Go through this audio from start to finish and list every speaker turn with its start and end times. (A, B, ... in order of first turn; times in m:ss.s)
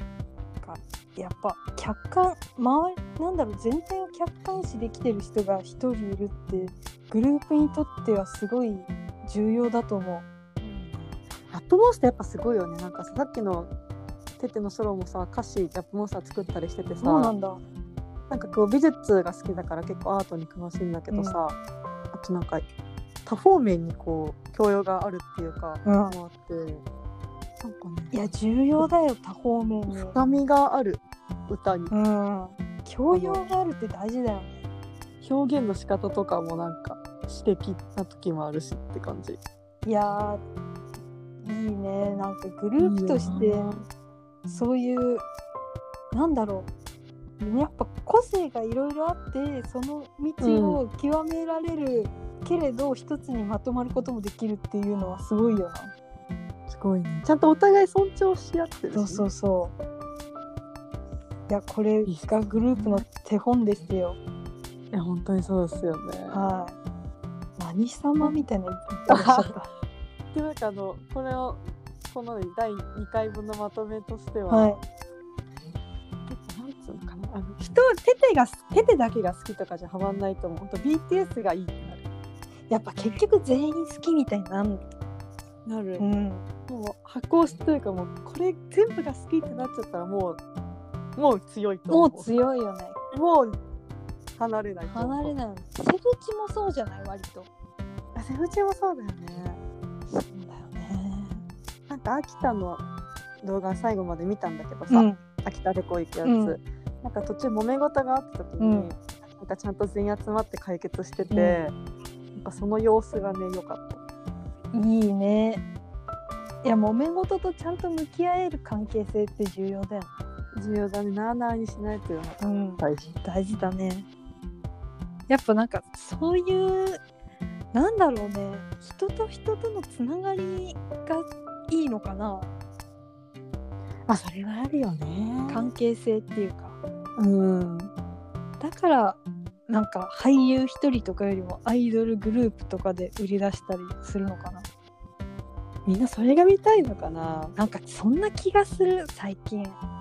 0:00.6-0:10.2 A
0:10.6-0:13.7 B
0:14.4-0:17.3 B
0:17.0-0:17.6 A
0:18.3-0:21.6 B
0:21.1-0:21.4 A
0:22.1-0:22.6 B
0:23.2-0:26.8 B
0:25.8-0:26.2 A
0:27.6-0:28.2 B
0:28.1-0:30.2 A
0:29.9-0:31.9 B
0:31.9-0:34.6 A
0:33.1-0:33.4 B
0:35.2-0:39.4 B
0:39.8-0:40.4 A
0:41.4-0:43.7 A
0:42.8-0:43.8 B
0:44.5-0:45.2 A
0:46.1-0:46.7 A
0:47.4-0:55.9 A
0:50.4-0:50.8 B
0:56.7-0:59.3 B
0:58.9-0:59.7 A
1:01.5-1:04.2 A
1:02.0-1:03.0 B
1:04.9-1:06.6 B
1:06.3-1:06.7 A
1:07.6-1:09.7 A
1:08.9-1:09.6 B
1:10.3-1:14.8 B
1:14.5-1:14.8 A
1:16.2-1:22.0 B
1:22.7-1:24.8 A
1:25.6-1:26.1 B
1:26.0-1:26.5 A
1:26.7-1:30.4 B
1:31.2-1:32.3 B
1:31.9-1:33.0 A
1:33.1-1:33.6 B
1:34.4-1:35.4 B
1:34.9-1:37.5 A
1:38.1-1:39.6 B
1:40.1-1:41.4 A
1:41.9-1:42.8 B
1:43.4-1:51.8 B
1:44.9-1:45.2 A
1:46.2-1:46.6 A
1:48.6-1:48.9 A
1:51.3-1:51.6 A
1:52.3-1:54.0 B
1:54.7-1:55.6 A
1:56.6-2:00.2 A
2:00.5-2:03.1 B
2:02.4-2:04.1 A
2:05.3-2:07.0 A
2:07.7-2:12.5 A
2:14.1-2:15.6 B
2:15.5-2:16.8 A
2:17.2-2:17.9 B
2:18.6-2:24.6 A
2:25.8-2:27.6 B
2:27.6-2:29.8 A